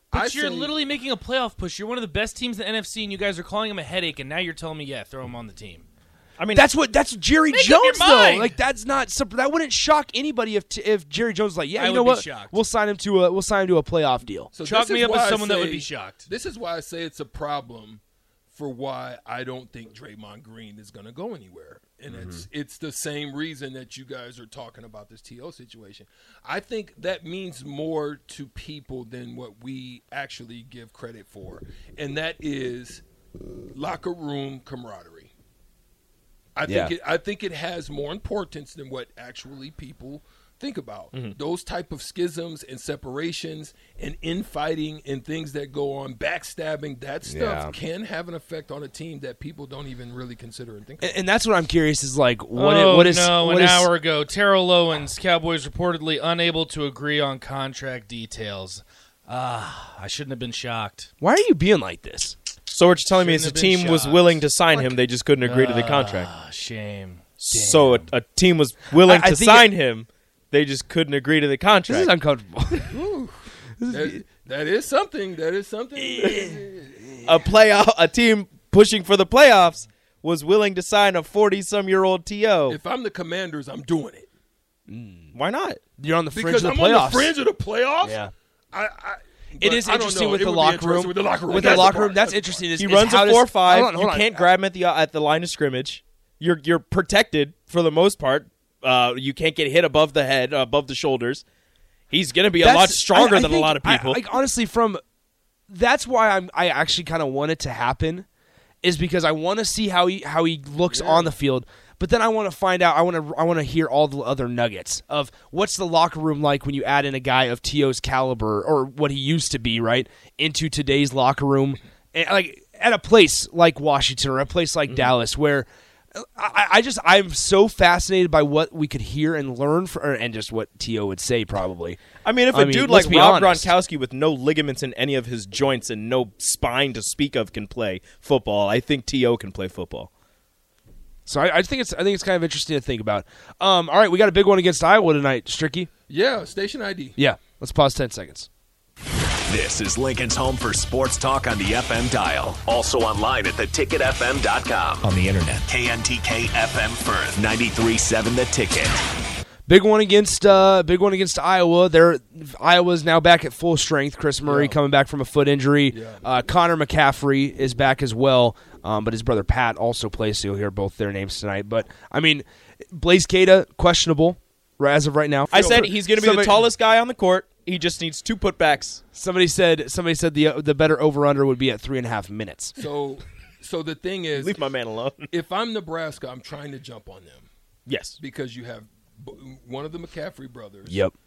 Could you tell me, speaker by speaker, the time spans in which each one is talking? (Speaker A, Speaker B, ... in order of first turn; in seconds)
Speaker A: 0.1-5.8, 7.5-8.6, 11.7-12.6, 14.6-16.2, 52.5-61.1, 63.1-68.1
Speaker B: 0.1-0.7, 14.5-18.0, 18.5-33.0, 33.7-35.3, 36.5-51.2, 72.9-77.1, 82.7-84.3, 86.3-92.6, 110.9-111.3, 146.1-147.1, 164.4-164.8, 165.9-166.2, 175.5-176.0, 182.8-184.7, 185.3-187.5, 188.2-191.0
Speaker C: 6.4-6.6, 62.7-66.3, 67.4-72.1, 77.2-82.8, 85.3-85.8, 91.5-91.9, 92.7-101.4, 102.1-104.2, 132.2-140.1, 175.5-179.0, 184.3-185.3, 187.9-188.2
Speaker D: 6.5-14.5, 36.7-36.9, 47.3-47.7, 51.0-53.9, 61.2-62.4, 69.0-69.7, 71.9-73.0, 73.8-74.2, 84.9-85.3, 86.0-87.3, 88.0-88.3, 89.6-94.5, 102.6-105.0, 105.7-108.2, 108.8-133.7, 141.2-145.9, 147.2-148.5, 159.7-176.6, 179.1-182.7, 190.9-191.1
Speaker E: 149.5-159.0